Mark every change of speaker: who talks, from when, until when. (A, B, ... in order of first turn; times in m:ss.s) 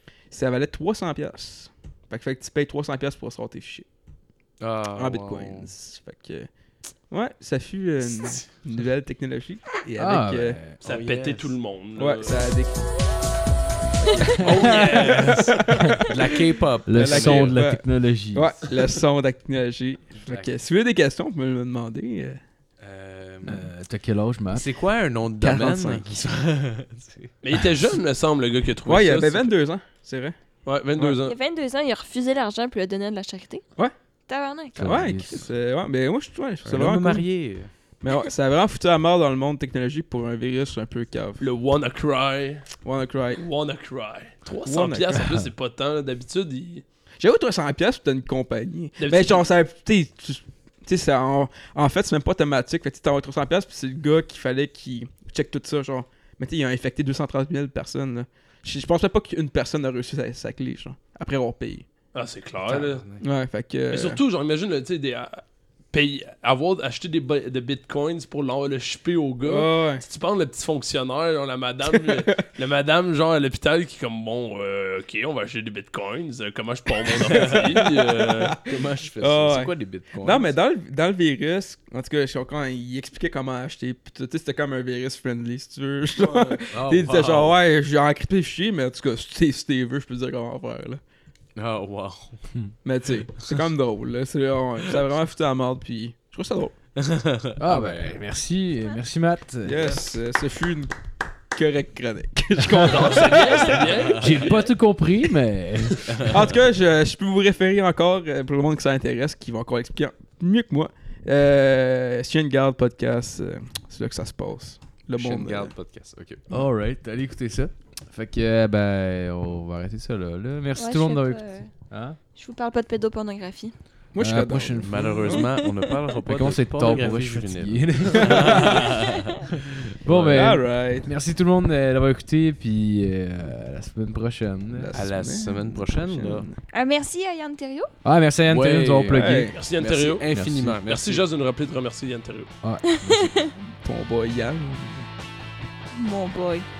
0:00.3-0:03.8 A
0:04.6-0:05.7 B
0:04.9-0:06.5 A
0:07.1-0:10.6 A
0:08.0-0:08.5 B
0:10.0-0:10.8 C
0:10.8-0:12.5 D
0:10.8-0:11.5 B
0:12.0-0:12.9 A
0:14.0-0:16.4 A
0:14.4-0:15.4 D
0:14.4-0:17.6 B
0:16.8-0:18.5 C
0:17.0-0:22.4 A
0:20.1-0:20.5 B
0:22.8-0:23.7 B
0:23.4-0:24.7 C
0:24.5-0:27.3 B
0:25.4-0:26.2 A
0:27.4-0:29.5 D
0:28.8-0:30.3 A
0:30.6-0:31.4 D
0:31.2-0:33.6 E
0:34.3-0:34.9 E
0:34.8-0:35.4 C
0:34.8-0:37.3 A
0:36.6-0:37.7 B
0:38.0-0:41.4 A
0:41.4-0:42.7 D
0:42.8-0:43.4 A
0:43.4-0:46.8 D
0:44.5-0:45.3 A
0:47.2-1:01.8 A
0:49.0-0:49.4 D
1:02.1-1:03.0 D
1:02.6-1:03.2 B
1:03.2-1:04.2 A
1:03.9-1:18.6 D
1:09.4-1:10.0 A
1:12.0-1:12.3 A
1:17.1-1:18.6 A
1:17.2-1:17.7 B
1:18.6-1:20.5 B
1:19.2-1:31.0 A
1:26.2-1:26.6 D
1:26.7-1:27.6 B
1:31.6-1:32.5 B
1:32.8-1:36.7 A
1:37.0-1:38.2 B
1:37.6-1:39.8 C
1:39.6-1:40.9 A
1:41.5-1:44.2 A
1:42.7-1:44.6 D
1:44.0-1:44.4 B
1:44.2-1:46.0 C
1:46.2-1:55.7 A
1:55.1-1:56.4 B
1:56.5-2:02.2 C
2:00.8-2:01.7 E
2:02.3-2:03.7 E
2:04.1-2:05.4 A
2:04.2-2:05.2 C
2:04.8-2:09.2 B
2:05.3-2:05.7 E
2:06.2-2:08.8 C
2:08.3-2:08.6 A
2:10.0-2:14.9 C
2:10.0-2:10.4 B
2:10.2-2:11.1 A
2:14.7-2:16.6 A
2:14.9-2:16.5 B
2:16.7-2:17.9 E
2:18.0-2:19.5 C
2:18.5-2:21.2 B
2:19.1-2:19.6 A
2:19.5-2:20.3 D
2:20.3-2:20.7 C
2:20.8-2:22.5 D
2:22.6-2:23.3 C
2:22.8-2:23.5 E
2:23.7-2:25.1 A
2:25.9-2:26.6 E